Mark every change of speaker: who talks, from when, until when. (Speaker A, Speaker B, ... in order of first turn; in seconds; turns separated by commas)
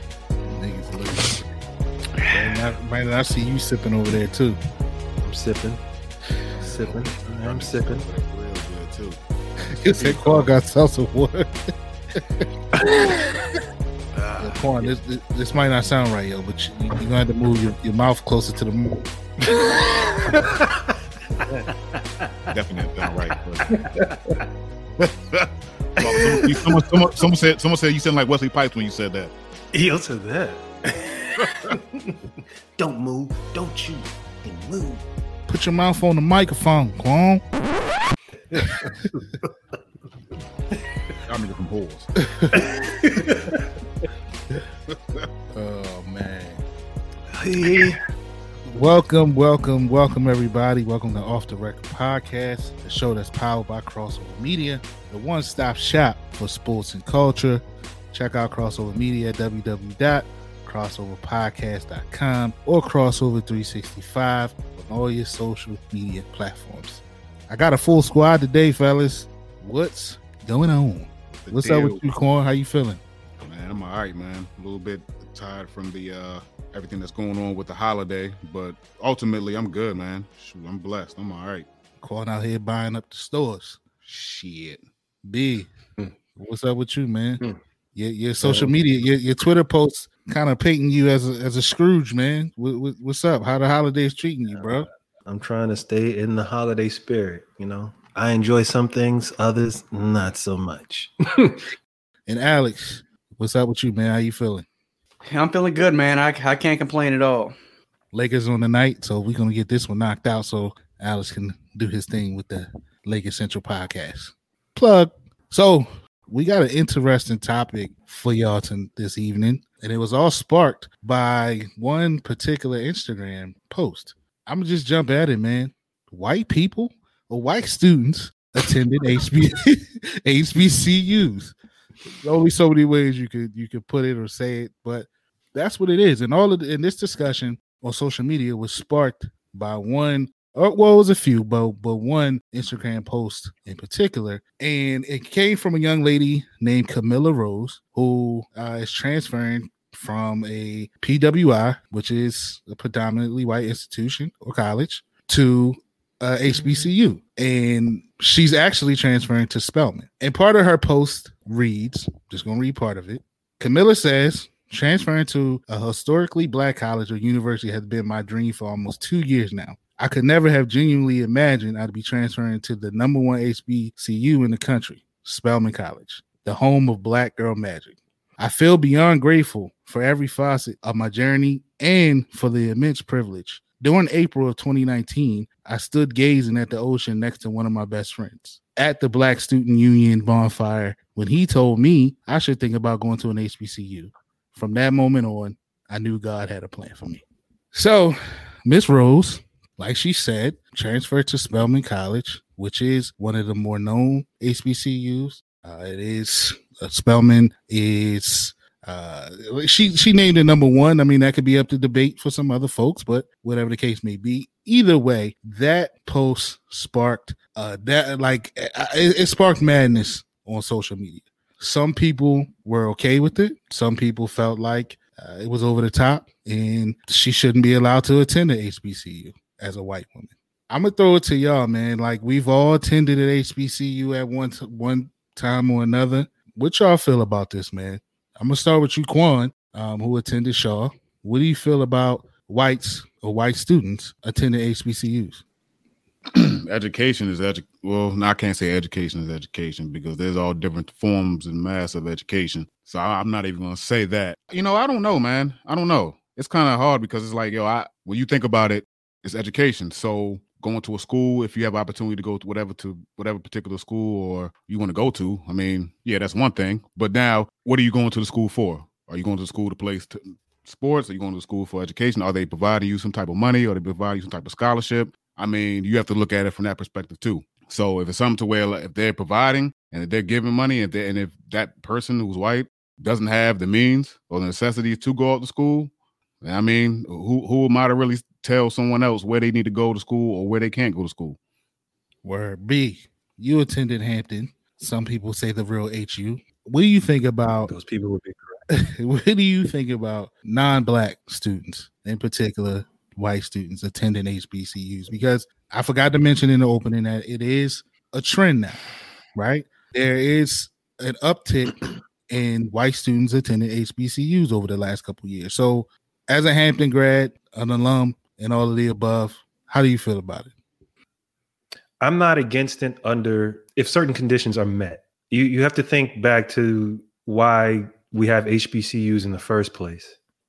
Speaker A: 0.5-1.4, Speaker A: 2.3-4.6, Speaker B: 5.2-5.8, Speaker C: 6.5-10.5, Speaker B: 6.5-8.1, Speaker A: 9.7-11.5, Speaker A: 12.1-12.4, Speaker C: 14.1-14.9, Speaker A: 14.4-19.1, Speaker B: 19.5-22.5, Speaker C: 22.5-23.8, Speaker B: 23.7-24.4, Speaker C: 25.0-29.3, Speaker B: 26.0-26.8, Speaker B: 29.7-32.2, Speaker C: 31.4-31.8, Speaker B: 32.8-35.0, Speaker A: 35.5-37.4, Speaker B: 38.4-39.5, Speaker C: 41.2-42.1, Speaker A: 42.2-42.6, Speaker B: 42.5-43.6, Speaker C: 44.9-45.2, Speaker A: 45.5-46.6, Speaker B: 47.3-48.0, Speaker A: 48.7-73.0, Speaker C: 71.4-72.0, Speaker C: 73.4-81.7, Speaker A: 82.0-83.8, Speaker C: 84.0-84.8, Speaker A: 85.2-85.7, Speaker A: 86.3-87.4, Speaker A: 87.9-94.9, Speaker B: 88.4-88.7, Speaker B: 94.5-101.6, Speaker A: 102.2-104.7, Speaker D: 105.3-107.5, Speaker A: 108.1-131.5, Speaker A: 132.2-245.4, Speaker C: 246.3-291.4, Speaker A: 292.2-297.7, Speaker B: 297.7-298.6, Speaker A: 298.7-308.8, Speaker A: 309.3-311.8, Speaker A: 312.3-320.5, Speaker B: 322.0-330.2